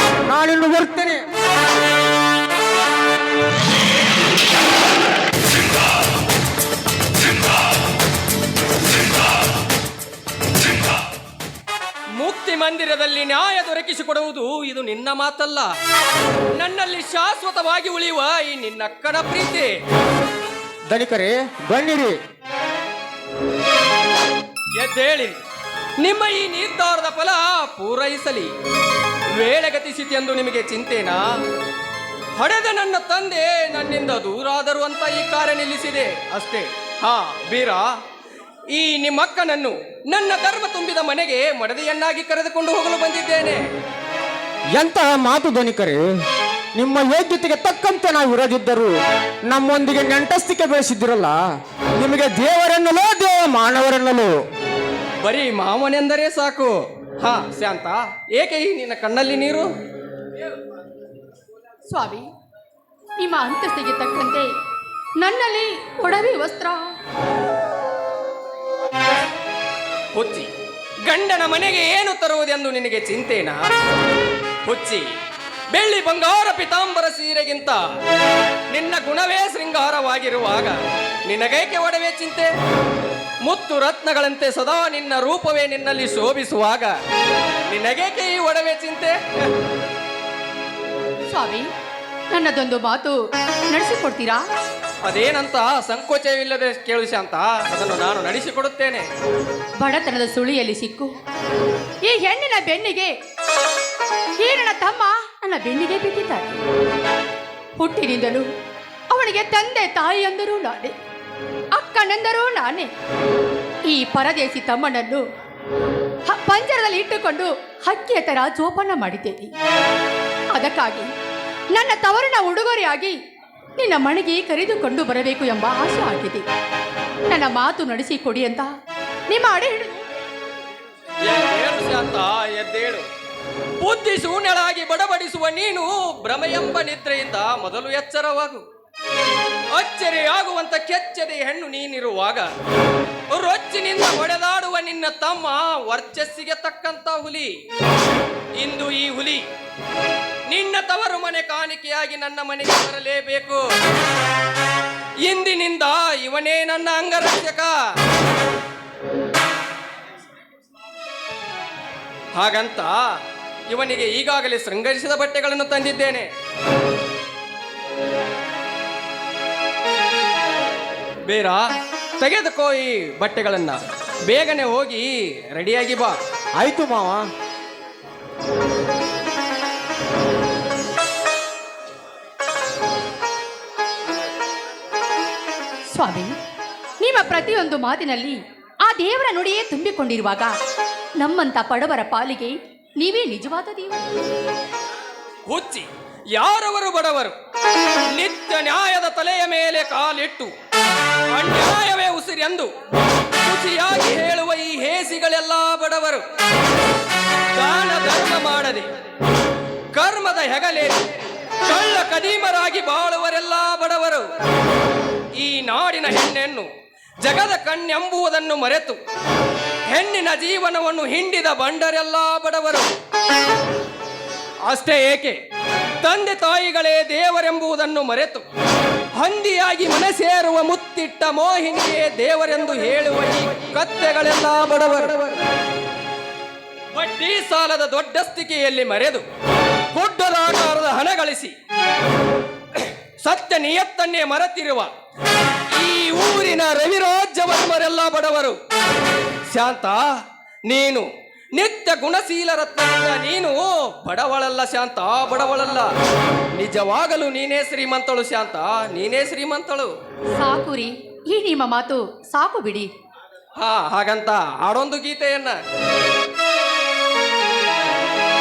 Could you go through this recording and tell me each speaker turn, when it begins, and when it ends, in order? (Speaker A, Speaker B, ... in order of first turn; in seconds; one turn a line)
Speaker A: 0.3-1.2
Speaker B: 12.2-15.7
Speaker B: 16.6-19.7
Speaker A: 20.9-22.1
Speaker B: 24.8-25.4
Speaker B: 26.0-28.5
Speaker B: 29.4-31.2
Speaker B: 32.4-37.9
Speaker B: 38.7-43.6
Speaker A: 44.8-46.0
Speaker A: 46.8-48.9
Speaker A: 49.5-51.3
Speaker A: 52.0-54.3
Speaker B: 55.2-59.7
Speaker C: 61.9-62.3
Speaker C: 63.2-64.5
Speaker C: 65.2-66.9
Speaker B: 70.1-70.5
Speaker B: 71.0-73.6
Speaker B: 74.7-75.1
Speaker B: 75.7-77.8
Speaker B: 78.7-82.5
Speaker B: 83.5-86.9
Speaker B: 87.7-89.5
Speaker C: 91.3-91.7
Speaker C: 92.3-93.2
Speaker C: 93.7-94.4
Speaker B: 95.0-99.1
Speaker C: 99.8-101.1
Speaker C: 102.0-103.1
Speaker C: 104.4-106.5
Speaker C: 107.8-108.5
Speaker C: 109.1-110.9
Speaker C: 111.7-112.9
Speaker C: 113.9-115.2
Speaker C: 116.3-119.5
Speaker C: 120.5-121.1
Speaker C: 121.7-123.2
Speaker C: 123.8-126.4
Speaker C: 127.3-128.7
Speaker C: 129.3-130.0
Speaker B: 131.2-133.1
Speaker B: 133.8-138.6
Speaker B: 139.7-142.5
Speaker B: 143.3-147.5
Speaker B: 148.6-149.4
Speaker B: 150.5-153.6
Speaker B: 155.2-157.8
Speaker B: 162.3-163.1
Speaker B: 163.7-166.3
Speaker B: 171.2-171.6
Speaker B: 172.2-176.2
Speaker A: 176.6-177.2
Speaker C: 185.9-186.3
Speaker C: 187.0-190.5
Speaker C: 191.2-194.0
Speaker B: 195.5-197.3
Speaker B: 198.1-200.5
Speaker B: 201.3-202.7
Speaker B: 203.4-206.2
Speaker B: 207.5-208.9
Speaker B: 209.9-214.3
Speaker B: 215.3-216.7
Speaker B: 217.2-219.0
Speaker B: 219.9-222.9
Speaker B: 224.7-225.4
Speaker B: 226.0-228.4
Speaker B: 229.2-235.4
Speaker B: 236.9-239.2
Speaker B: 239.9-241.5
Speaker B: 242.7-244.9
Speaker B: 245.7-248.6
Speaker B: 249.5-250.0
Speaker B: 250.7-255.9
Speaker B: 256.5-259.9
Speaker C: 260.3-262.9
Speaker B: 263.6-265.6